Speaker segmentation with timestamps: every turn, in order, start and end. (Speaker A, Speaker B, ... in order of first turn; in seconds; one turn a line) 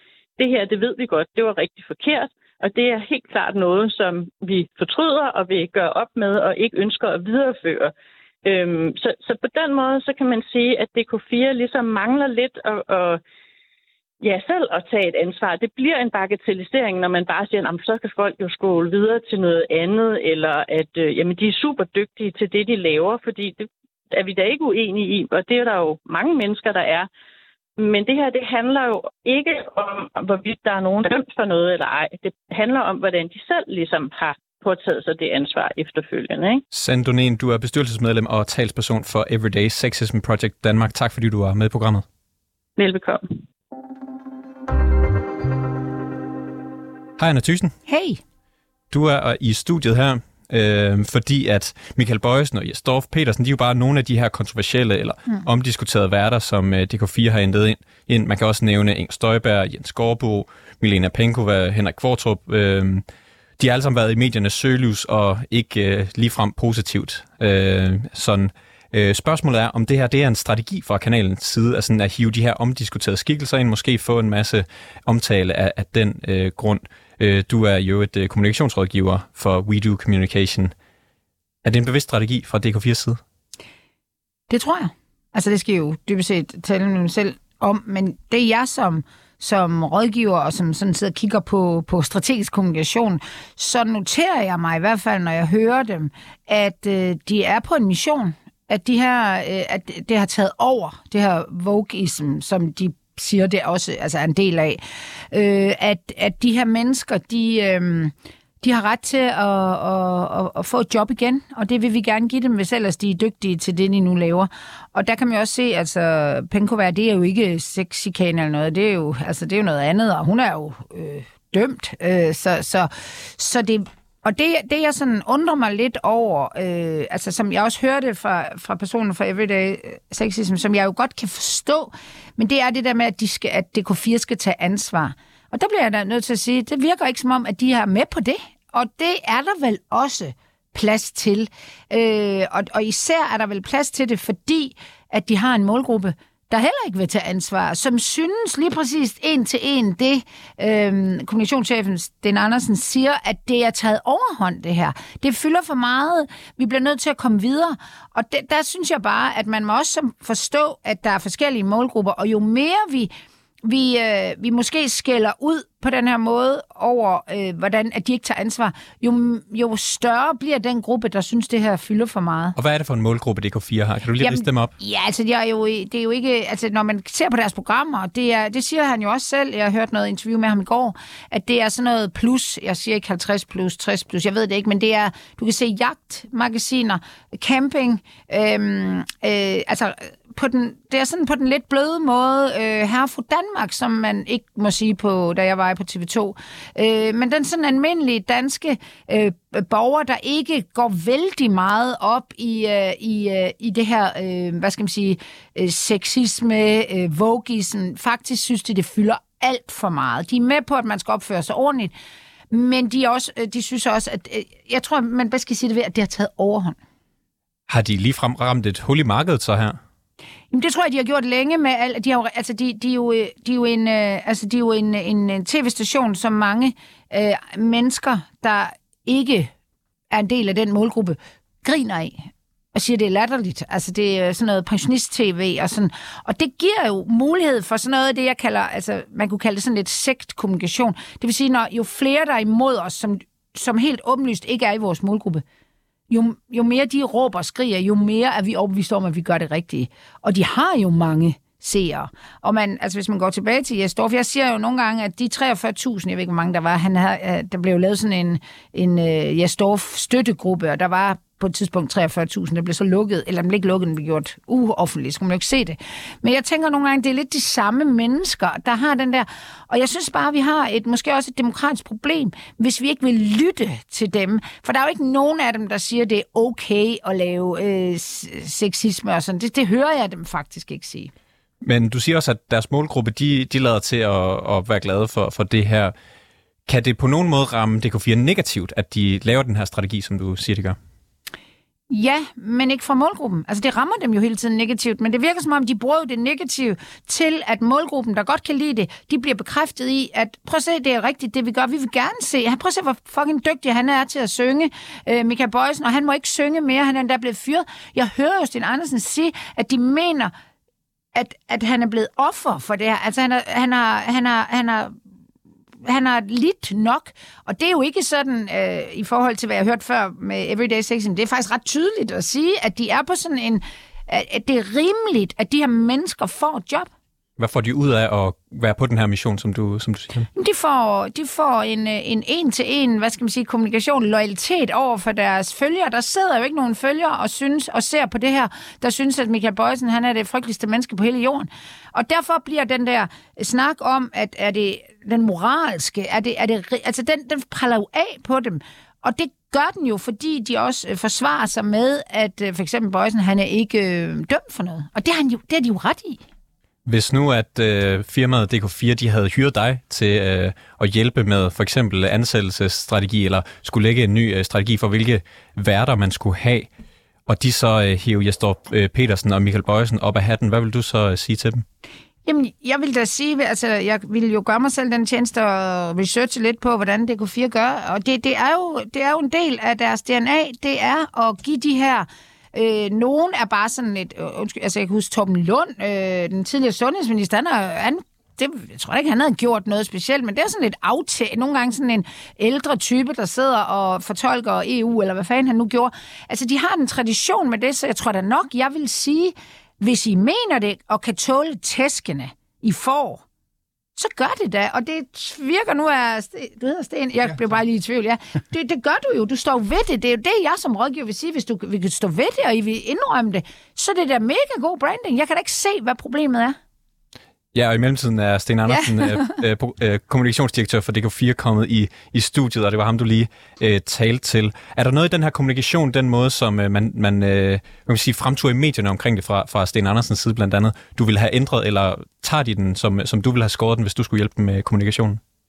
Speaker A: 0.4-7.9
Speaker A: 8.4-13.2
Speaker A: 14.2-27.1
Speaker A: 27.8-36.6
Speaker B: 36.7-42.0
Speaker A: 42.8-43.2
Speaker B: 47.2-47.7
Speaker C: 47.9-48.2
Speaker B: 48.9-63.0
Speaker B: 63.6-80.7
Speaker B: 81.6-83.2
Speaker C: 84.5-163.1
Speaker C: 163.6-172.6
Speaker B: 172.6-174.7
Speaker C: 174.2-211.9
Speaker C: 212.5-216.8
Speaker B: 217.7-219.8
Speaker C: 220.5-229.5
Speaker C: 230.1-245.4
Speaker C: 246.1-281.1
Speaker B: 281.6-285.9
Speaker B: 286.7-290.8
Speaker C: 291.9-310.3
Speaker C: 311.1-314.9
Speaker C: 315.8-326.9
Speaker B: 327.4-330.3
Speaker C: 330.3-356.2
Speaker B: 356.9-366.7
Speaker B: 367.3-371.6
Speaker C: 372.2-403.2
Speaker C: 404.0-416.6
Speaker B: 417.5-435.2